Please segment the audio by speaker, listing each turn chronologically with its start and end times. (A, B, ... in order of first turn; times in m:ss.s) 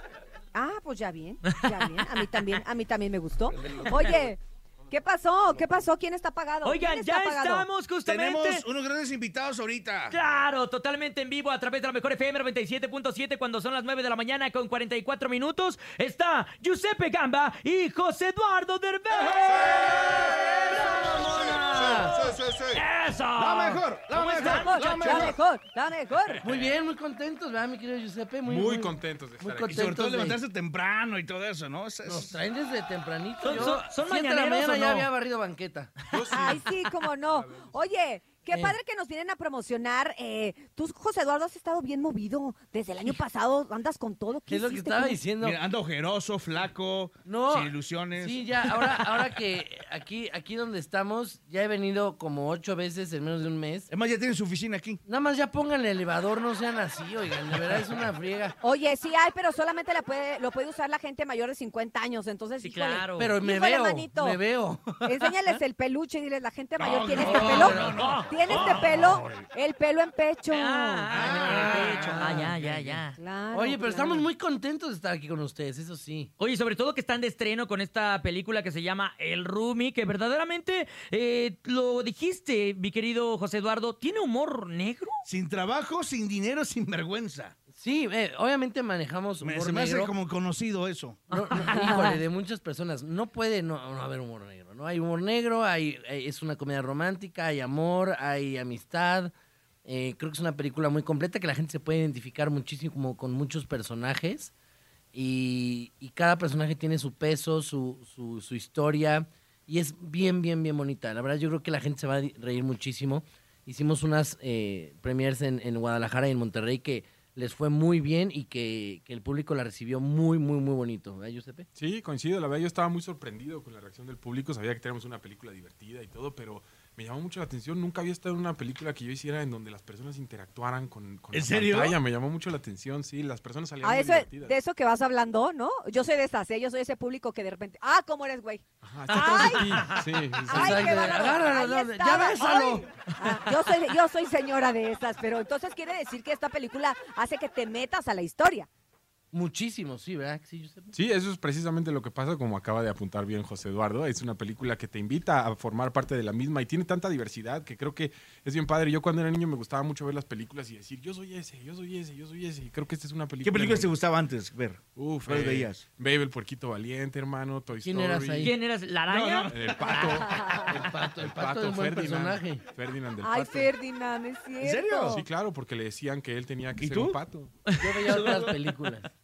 0:00.5-0:04.4 A
0:03.5-0:04.3 B
0:04.9-0:07.6 A
0:06.6-0:08.6 C
0:08.0-0:10.2 B
0:10.1-0:20.1 C
0:19.4-0:22.8 D
0:19.7-0:22.2 E
0:22.7-0:25.4 C
0:23.3-0:25.3 B
0:24.3-0:26.4 A
0:26.3-0:26.6 D
0:26.4-0:30.4 E
0:28.4-0:29.9 D
0:29.6-0:32.4 B
0:32.0-0:35.9 E
0:33.4-0:35.1 C
0:36.1-0:37.9 D
0:36.3-0:45.2 A
0:38.5-0:38.8 E
0:44.5-0:45.6 E
0:45.4-0:48.7 B
0:47.2-0:53.9 E
0:53.9-0:55.0 B
0:55.0-0:58.6 E
0:58.6-1:04.4 A
1:02.6-1:03.4 C
1:03.2-1:05.6 E
1:05.0-1:12.3 A
1:06.8-1:08.2 B
1:07.2-1:08.0 E
1:07.2-1:09.3 C
1:10.5-1:13.2 C
1:11.1-1:16.3 E
1:11.1-1:12.2 B
1:13.2-1:14.3 A
1:16.4-1:25.1 C
1:25.2-1:27.5 B
1:27.7-1:30.1 E
1:29.4-1:31.2 B
1:31.3-1:32.0 C
1:31.3-1:39.3 E
1:31.7-1:32.1 A
1:39.8-1:44.5 E
1:45.1-2:01.6 E
2:01.8-2:14.6 D
2:11.3-2:12.0 B
2:13.8-2:19.9 A
2:18.8-2:21.2 D
2:19.2-2:20.0 C
2:20.4-2:22.9 E
2:20.4-2:28.7 A
2:23.2-2:23.6 C
2:29.3-2:30.9 E
2:30.9-2:43.9 D
2:43.4-2:45.8 B
2:44.9-2:48.5 D
2:47.8-2:48.5 E
2:48.4-2:50.2 C
2:49.1-2:50.2 B
2:49.5-2:53.7 D
2:50.1-2:50.7 A
2:50.7-2:52.6 E
2:53.2-2:55.2 A
2:54.6-2:55.2 B
2:55.1-2:57.8 D
2:56.8-2:57.2 B
2:57.7-2:58.4 C
2:57.8-2:59.1 E
2:58.0-2:58.6 B